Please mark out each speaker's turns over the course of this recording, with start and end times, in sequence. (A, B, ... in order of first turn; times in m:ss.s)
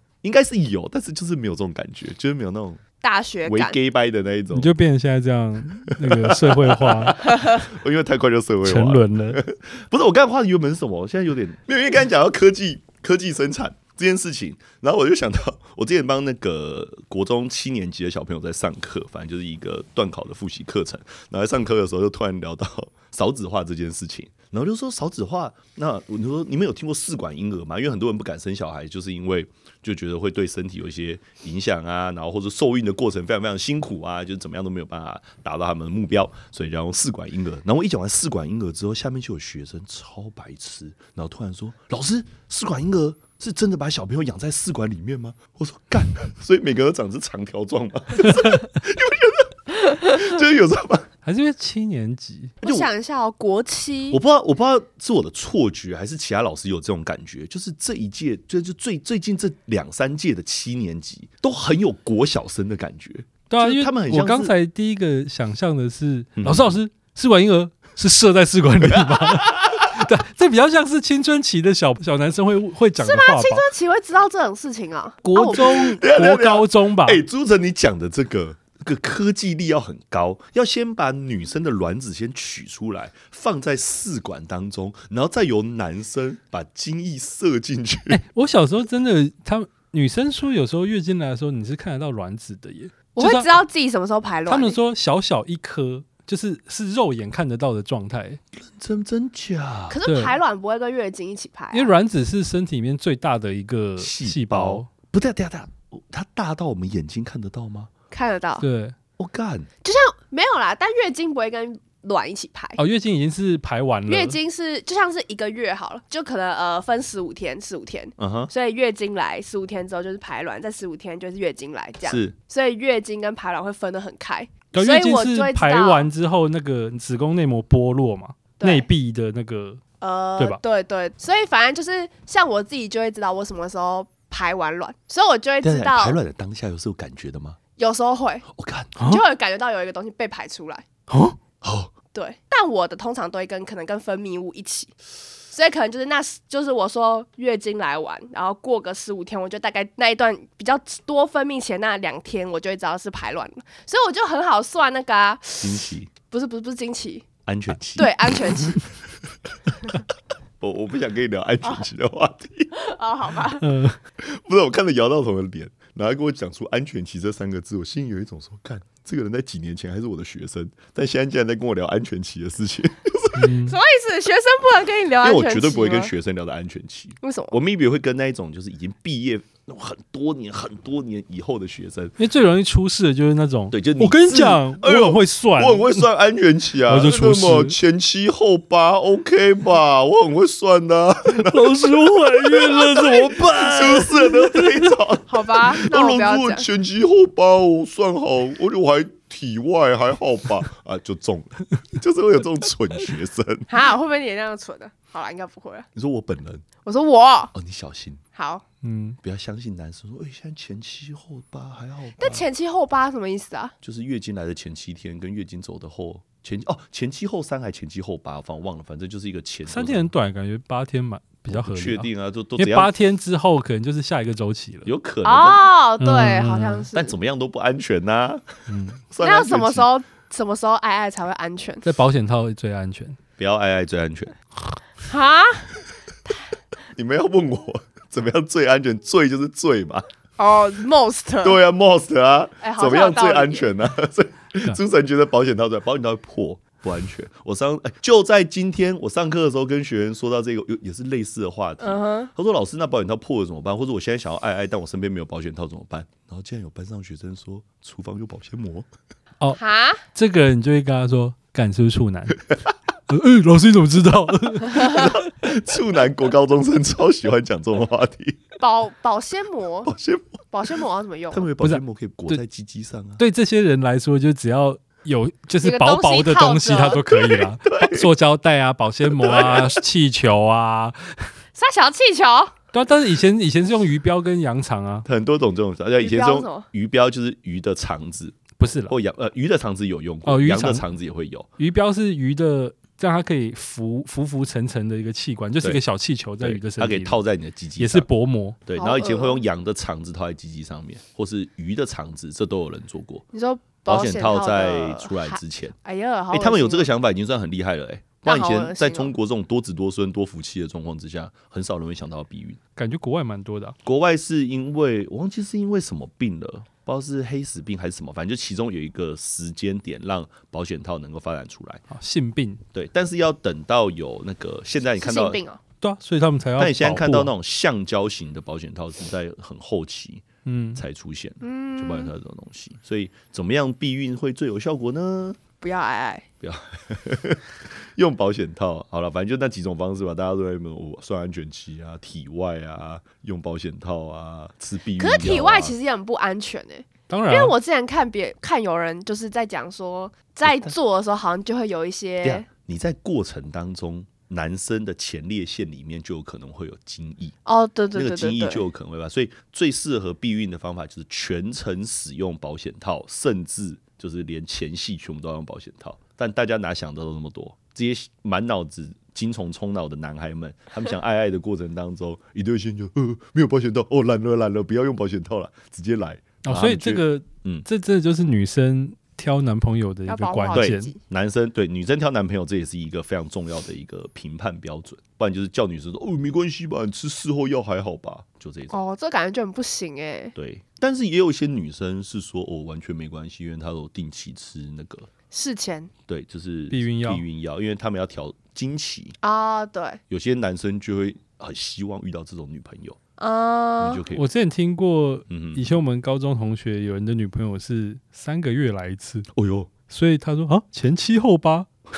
0:00.2-0:02.8 A
0:03.0-0:03.8 B
0:03.4-0:04.7 A
0:04.5-0:07.2 C
0:06.0-0:51.1 A
0:07.3-0:07.6 B
0:08.6-0:09.4 C
0:51.2-0:52.6 C
0:52.6-0:54.2 B
0:52.6-0:52.9 A
0:54.1-1:04.5 A
1:03.5-1:13.7 C
1:06.4-1:06.8 A
1:08.9-1:10.0 A
1:13.0-1:15.9 B
1:15.3-1:17.2 C
1:15.4-1:28.2 A
1:28.1-1:33.5 C
1:33.2-1:34.8 B
1:34.5-1:38.4 C
1:38.5-1:40.0 A
1:39.9-1:41.9 B
1:40.1-1:40.4 C
1:41.7-1:44.9 C
1:44.0-1:47.9 A
1:48.1-1:48.6 B
1:48.6-1:49.0 C
1:49.2-1:49.7 A
1:49.8-1:52.8 B
1:52.8-1:54.4 C
1:54.1-2:06.1 B
1:58.2-1:58.5 A
2:02.0-2:02.4 A
2:04.7-2:09.8 C
2:08.6-2:08.9 B
2:10.0-2:16.2 B
2:15.6-2:17.6 A
2:17.8-2:18.5 B
2:18.5-2:19.0 A
2:19.0-2:19.2 C
2:19.1-2:20.8 B
2:21.1-2:21.4 C
2:21.6-2:21.9 A
2:22.1-2:24.9 B
2:25.5-2:37.3 B
2:35.6-2:36.1 A
2:37.5-2:38.4 A
2:38.0-2:38.8 B
2:40.6-2:42.7 A
2:42.8-2:43.7 B
2:43.6-2:44.0 C
2:44.2-2:53.5 A
2:53.4-2:53.8 C
2:53.7-2:56.1 B
2:55.2-3:02.2 A
2:57.2-2:57.6 B
3:02.2-3:06.1 C
3:03.7-3:23.7 A
3:06.9-3:07.8 C
3:11.3-3:14.9 C
3:15.3-3:16.7 B
3:23.7-3:25.9 B
3:26.0-3:26.7 A
3:26.8-3:27.5 B
3:27.5-3:28.2 A
3:28.4-3:28.6 B
3:28.8-3:29.2 C
3:29.2-3:32.4 A
3:32.2-3:33.7 B
3:33.8-3:40.1 A
3:39.7-3:44.9 C
3:41.5-3:42.9 A
3:44.8-3:45.7 A
3:45.2-3:47.1 B
3:46.0-3:46.8 C
3:46.9-3:48.4 A
3:48.7-3:49.0 C
3:49.0-3:49.9 A
3:49.2-3:51.8 B
3:51.8-3:53.2 C
3:53.4-3:54.4 A
3:55.1-3:55.7 B
3:57.0-4:00.0 A
4:00.4-4:01.6 B
4:01.4-4:18.9 A
4:02.6-4:03.7 B
4:11.8-4:12.3 B
4:19.6-4:20.0 B
4:20.1-4:22.4 C
4:23.1-4:25.1 C
4:24.7-4:28.4 A
4:28.6-4:29.9 B
4:29.9-4:30.4 A
4:30.5-4:31.5 B
4:31.3-4:33.2 A
4:31.6-4:32.4 C
4:33.2-4:41.2 C
4:35.6-4:37.4 B
4:37.6-4:38.1 A
4:39.1-4:39.8 A
4:41.6-4:42.5 B
4:42.7-4:45.1 C
4:45.0-4:51.5 A
4:46.0-4:46.7 B
4:48.6-4:49.0 C
4:50.3-4:50.9 C
4:51.6-4:57.2 C
4:56.4-4:58.1 A
4:57.8-4:58.6 C
4:58.7-5:03.3 A
4:58.8-4:59.4 B
5:03.3-5:06.9 B
5:03.9-5:05.8 A
5:06.3-5:12.6 A
5:08.2-5:09.1 B
5:12.8-5:13.8 C
5:13.8-5:21.8 A
5:21.9-5:22.6 C
5:22.7-5:25.4 A
5:25.0-5:25.6 B
5:25.8-5:27.3 C
5:26.6-5:30.2 A
5:30.4-5:30.8 C
5:30.8-5:35.4 A
5:31.4-5:32.1 B
5:35.6-5:36.3 B
5:36.4-5:45.8 A
5:45.0-5:52.5 B
5:47.1-5:47.6 C
5:50.4-5:50.8 A
5:52.2-5:57.4 A
5:57.5-5:58.6 B
5:58.0-6:17.7 A
6:16.4-6:20.9 C
6:20.1-6:21.0 B
6:20.5-6:28.8 A
6:28.7-6:30.3 B
6:30.4-6:35.1 A
6:35.3-6:35.9 B
6:36.1-6:39.2 A
6:36.7-6:37.2 C
6:39.2-6:40.0 B
6:40.1-6:43.0 A
6:43.2-6:44.0 B
6:43.8-6:44.2 A
6:44.1-6:49.3 C
6:45.3-6:45.6 A
6:49.4-6:49.7 A
6:49.9-6:51.7 C